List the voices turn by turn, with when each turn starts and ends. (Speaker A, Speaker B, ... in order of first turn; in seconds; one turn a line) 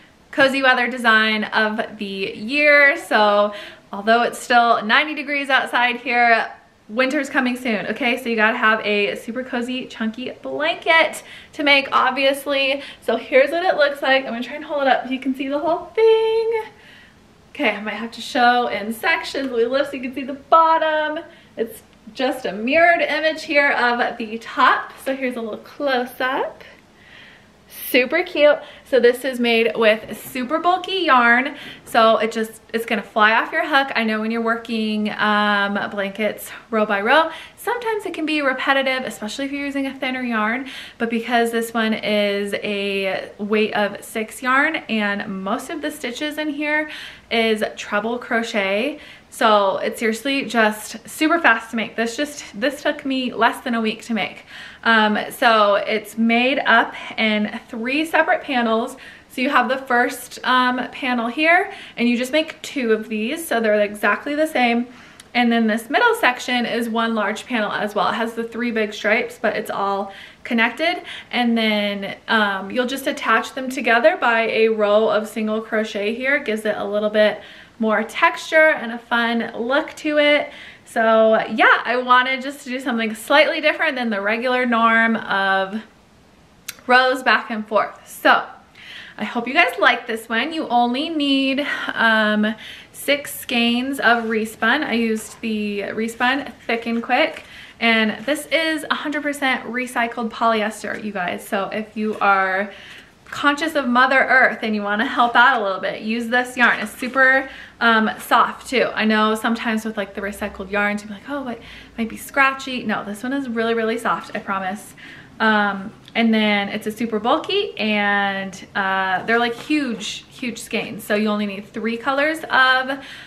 Speaker A: 0.3-16.6
Speaker A: 17.5-26.7
Speaker A: 27.7-85.8
Speaker A: 86.9-88.4
Speaker A: 89.2-102.7
Speaker A: 103.3-123.0